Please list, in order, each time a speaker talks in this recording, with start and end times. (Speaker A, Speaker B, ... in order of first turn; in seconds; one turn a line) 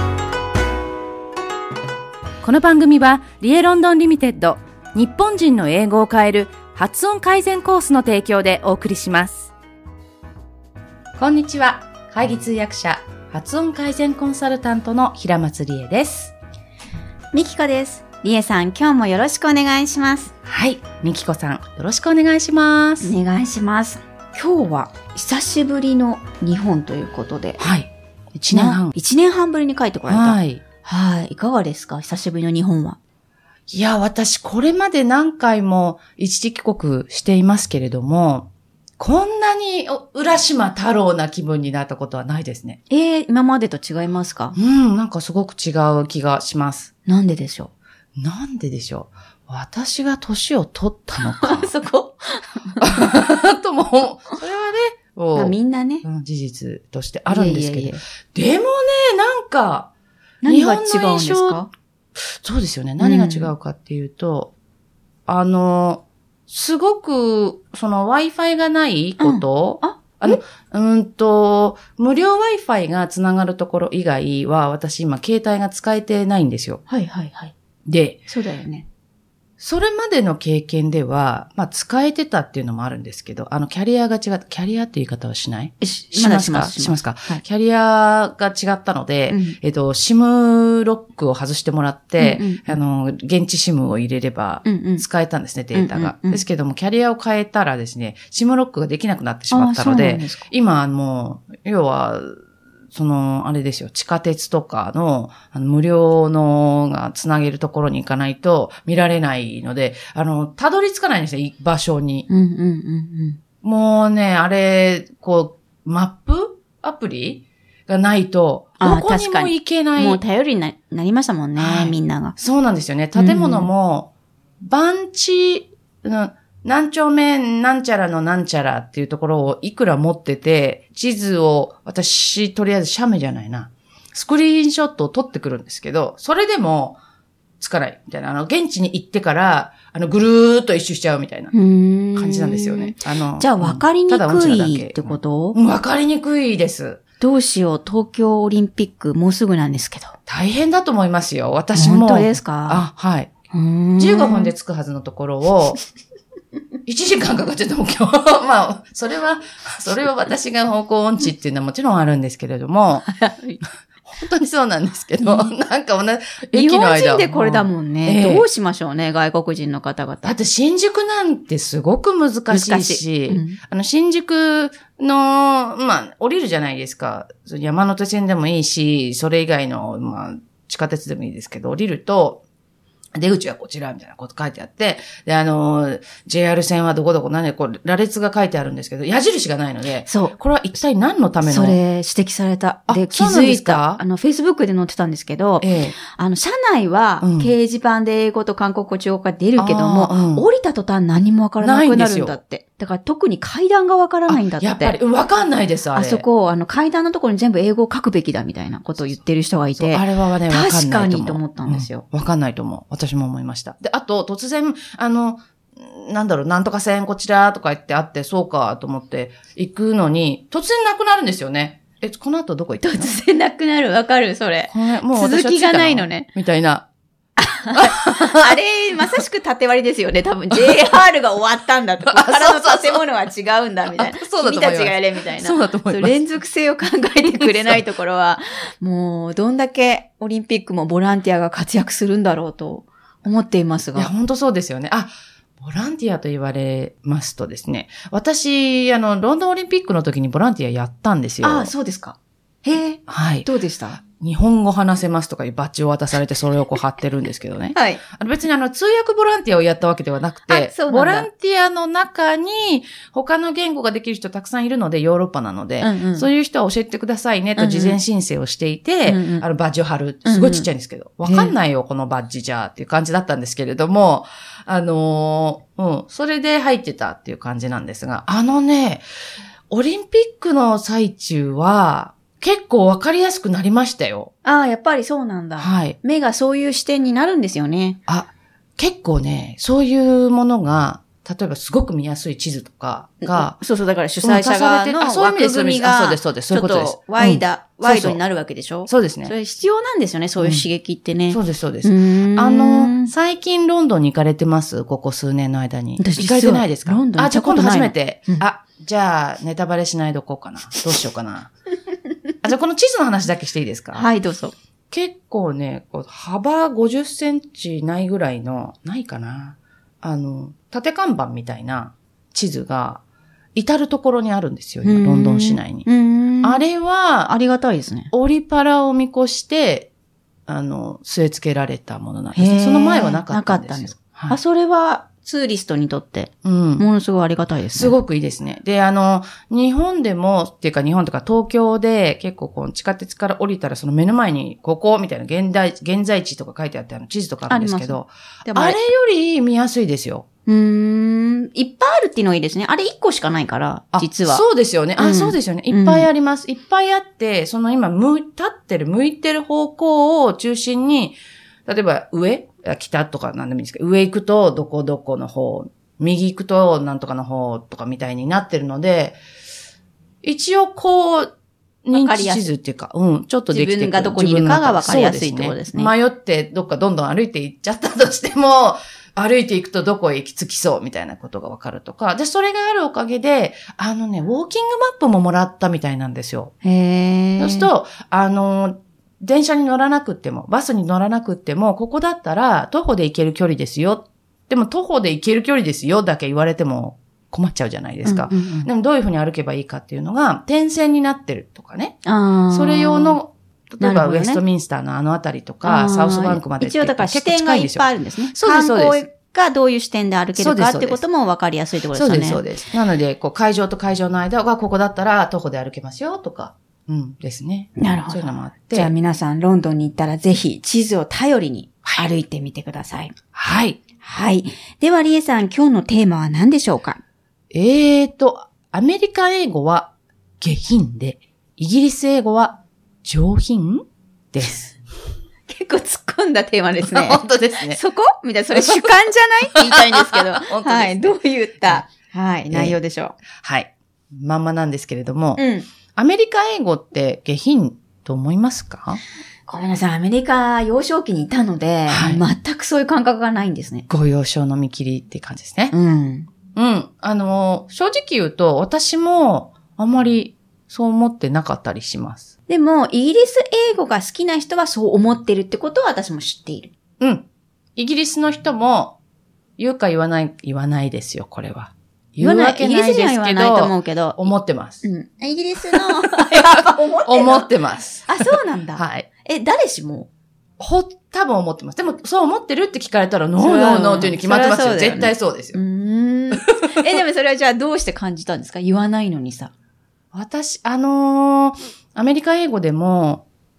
Speaker A: 2.4-9.5
Speaker A: 11.2-16.4
Speaker B: 17.3-20.3
Speaker A: 20.4-23.1
Speaker B: 23.0-27.6
Speaker A: 27.6-28.9
Speaker B: 28.5-33.0
Speaker A: 30.1-30.6
Speaker A: 33.7-42.8
Speaker B: 42.9-44.6
Speaker A: 44.6-46.9
Speaker B: 47.1-47.7
Speaker A: 48.2-51.7
Speaker B: 51.2-53.0
Speaker A: 52.8-59.9
Speaker B: 55.4-56.0
Speaker B: 57.3-58.0
Speaker B: 60.4-61.7
Speaker A: 60.5-61.6
Speaker A: 62.2-64.5
Speaker B: 63.0-63.5
Speaker A: 65.3-76.8
Speaker B: 69.2-70.4
Speaker B: 76.9-77.5
Speaker A: 77.9-78.2
Speaker B: 78.3-78.9
Speaker A: 79.6-102.3
Speaker B: 85.8-87.4
Speaker B: 89.3-89.6
Speaker B: 92.2-92.8
Speaker B: 94.6-95.0
Speaker B: 95.7-96.4
Speaker B: 99.5-100.5
Speaker A: 102.9-112.3
Speaker B: 112.3-113.4
Speaker A: 113.6-120.2
Speaker B: 118.8-122.4
Speaker A: 121.6-137.0
Speaker B: 123.2-123.7
Speaker A: 137.6-141.5
Speaker B: 141.5-145.6
Speaker A: 142.2-147.0
Speaker B: 147.2-150.2
Speaker A: 150.3-153.3
Speaker B: 151.8-152.9
Speaker B: 153.5-154.5
Speaker A: 154.0-155.8
Speaker A: 156.9-163.1
Speaker B: 163.1-163.6
Speaker A: 164.1-168.5
Speaker B: 165.2-165.5
Speaker B: 166.5-170.3
Speaker A: 170.2-182.4
Speaker B: 172.5-173.6
Speaker A: 183.2-191.8
Speaker B: 190.1-190.3
Speaker B: 191.4-205.0
Speaker A: 192.9-194.0
Speaker A: 195.6-196.0
Speaker A: 197.2-197.5
Speaker A: 199.6-200.5
Speaker A: 201.6-202.4
Speaker A: 204.3-206.2
Speaker B: 205.9-212.1
Speaker A: 209.8-223.1
Speaker B: 222.8-226.3
Speaker A: 224.7-226.9
Speaker B: 227.4-244.1
Speaker A: 227.7-228.5
Speaker A: 232.0-233.0
Speaker A: 233.9-236.1
Speaker A: 237.4-237.8
Speaker A: 243.9-251.7
Speaker B: 251.4-254.0
Speaker A: 253.1-253.5
Speaker A: 254.0-279.0
Speaker B: 257.8-258.0
Speaker B: 260.5-261.3
Speaker B: 265.8-266.3
Speaker B: 267.6-268.0
Speaker B: 269.1-269.4
Speaker B: 270.2-270.7
Speaker B: 271.2-271.5
Speaker A: 279.7-284.3
Speaker B: 284.4-288.0
Speaker A: 285.6-286.0
Speaker A: 288.1-293.6
Speaker B: 293.2-303.1
Speaker A: 294.2-298.2
Speaker A: 298.9-299.3
Speaker A: 300.4-300.6
Speaker A: 301.3-311.5
Speaker B: 306.0-308.4
Speaker A: 312.4-314.1
Speaker B: 313.9-314.6
Speaker A: 314.9-323.0
Speaker A: 323.6-325.9
Speaker B: 324.9-326.6
Speaker A: 326.4-327.3
Speaker B: 327.3-328.1
Speaker A: 328.1-329.9
Speaker A: 330.5-334.4
Speaker B: 332.4-338.0
Speaker A: 336.4-336.9
Speaker A: 337.8-350.3
Speaker B: 347.5-348.8
Speaker B: 350.5-354.4
Speaker A: 353.9-369.2
Speaker B: 355.0-356.1
Speaker A: 370.2-371.3
Speaker A: 371.9-386.5
Speaker B: 371.9-372.5
Speaker B: 373.5-375.9
Speaker B: 386.6-387.7
Speaker A: 387.4-402.0
Speaker B: 398.1-398.7
Speaker B: 402.1-403.2
Speaker A: 402.5-409.0
Speaker B: 403.8-404.4
Speaker B: 405.6-412.4
Speaker A: 410.4-411.0
Speaker A: 411.9-418.9
Speaker B: 417.8-423.1
Speaker A: 423.4-423.8
Speaker B: 424.0-427.0
Speaker A: 427.5-434.8
Speaker B: 435.5-443.2
Speaker A: 436.8-437.8
Speaker A: 438.5-441.8
Speaker A: 442.5-442.8
Speaker A: 443.4-449.0
Speaker B: 445.4-445.7
Speaker B: 449.5-453.9
Speaker A: 451.9-452.2
Speaker A: 453.9-455.8
Speaker B: 455.7-456.3
Speaker A: 456.6-462.3
Speaker B: 462.5-466.7
Speaker A: 467.0-469.0
Speaker A: 469.6-474.9
Speaker B: 472.2-474.2
Speaker B: 474.8-477.5
Speaker A: 475.7-476.3
Speaker A: 477.1-478.1
Speaker B: 478.1-480.1
Speaker A: 478.8-479.1
Speaker A: 480.6-485.6
Speaker B: 483.4-489.5
Speaker A: 486.4-486.9
Speaker A: 490.1-493.3